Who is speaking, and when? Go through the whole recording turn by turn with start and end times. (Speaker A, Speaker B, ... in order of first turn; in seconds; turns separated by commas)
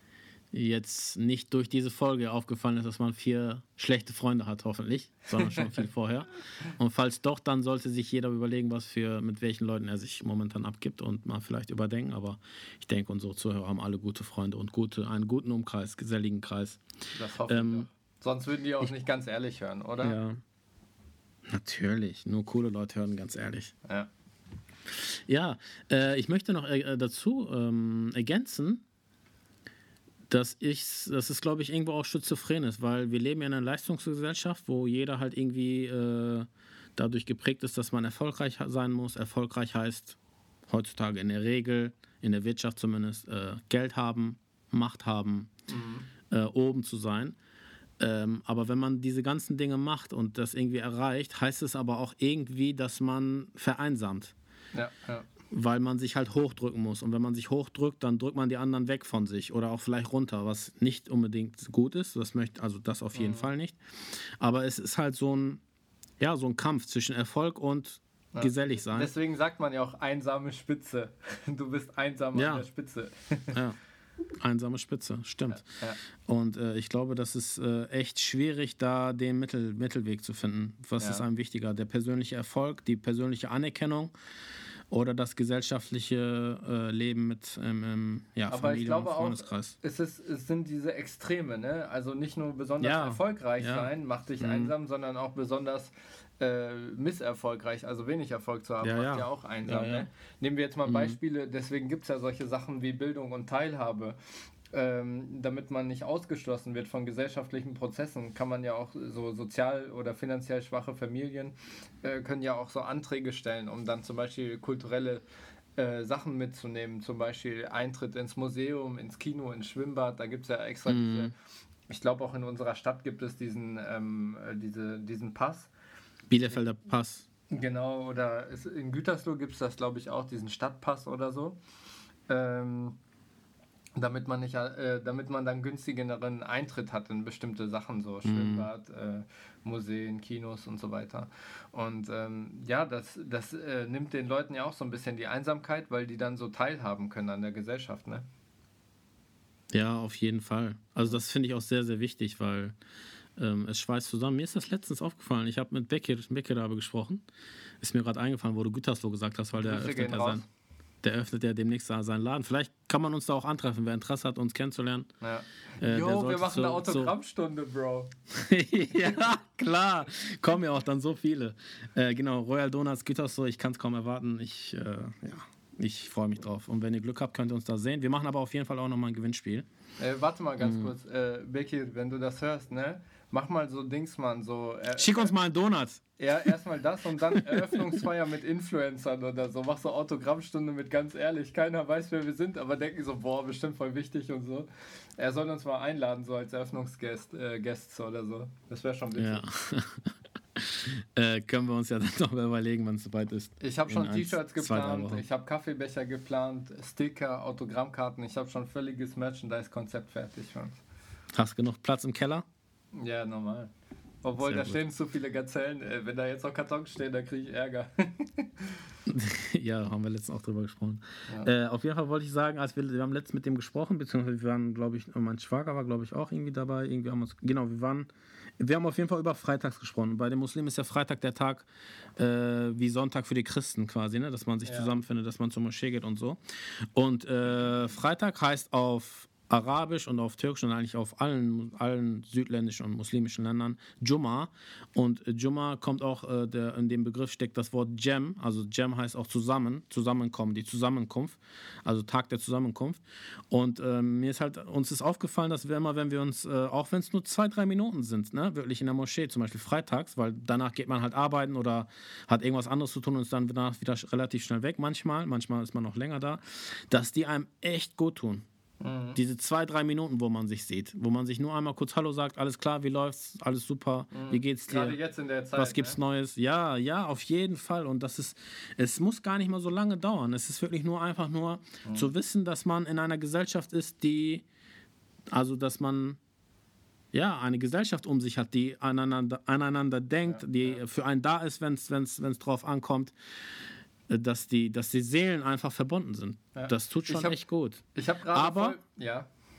Speaker A: 0.5-16.8, Speaker B: 5.4-5.7, Speaker B: 17.1-20.2, Speaker A: 17.5-17.9, Speaker A: 20.0-20.4, Speaker A: 21.5-23.7, Speaker A: 25.3-28.8, Speaker A: 30.3-40.2, Speaker A: 40.7-45.5, Speaker B: 45.7-46.1, Speaker A: 46.3-47.4, Speaker A: 48.0-54.3, Speaker B: 54.7-55.3, Speaker A: 55.5-63.8, Speaker B: 63.1-63.5, Speaker A: 64.4-65.6, Speaker A: 66.2-69.1, Speaker B: 68.3-73.6, Speaker A: 72.3-72.7, Speaker A: 73.5-73.8, Speaker A: 74.4-75.7, Speaker B: 75.5-76.0, Speaker A: 76.2-84.1, Speaker B: 81.0-81.2, Speaker A: 84.9-89.8, Speaker B: 88.5-104.2, Speaker A: 92.8-94.7, Speaker A: 98.8-100.1, Speaker A: 100.8-101.2, Speaker B: 104.7-115.2, Speaker B: 115.8-121.3, Speaker A: 120.9-121.3, Speaker B: 121.9-125.7, Speaker A: 126.3-127.2, Speaker B: 127.5-131.6, Speaker B: 132.3-133.0, Speaker B: 134.0-148.3, Speaker A: 138.2-138.7, Speaker A: 149.7-152.8, Speaker A: 153.4-157.2, Speaker A: 157.8-160.4, Speaker B: 159.6-160.4, Speaker A: 161.0-165.1, Speaker B: 165.2-168.1, Speaker A: 165.8-167.1, Speaker A: 168.3-179.7, Speaker B: 180.0-185.3, Speaker A: 180.6-180.9, Speaker A: 185.0-186.0, Speaker B: 186.2-199.4, Speaker A: 187.3-187.9, Speaker A: 199.2-205.2, Speaker B: 203.6-210.8, Speaker A: 211.3-212.4, Speaker B: 212.9-213.7, Speaker B: 214.2-218.8, Speaker A: 214.4-214.8, Speaker A: 219.1-236.4, Speaker B: 234.7-234.9, Speaker A: 236.9-268.4, Speaker B: 268.8-269.2, Speaker A: 269.1-275.0, Speaker B: 274.1-276.0, Speaker A: 275.6-284.4, Speaker B: 281.9-282.1, Speaker A: 285.3-286.2, Speaker A: 287.1-293.1, Speaker B: 290.3-290.8, Speaker A: 294.1-297.8, Speaker B: 296.5-297.4, Speaker B: 297.9-299.3, Speaker A: 298.3-298.8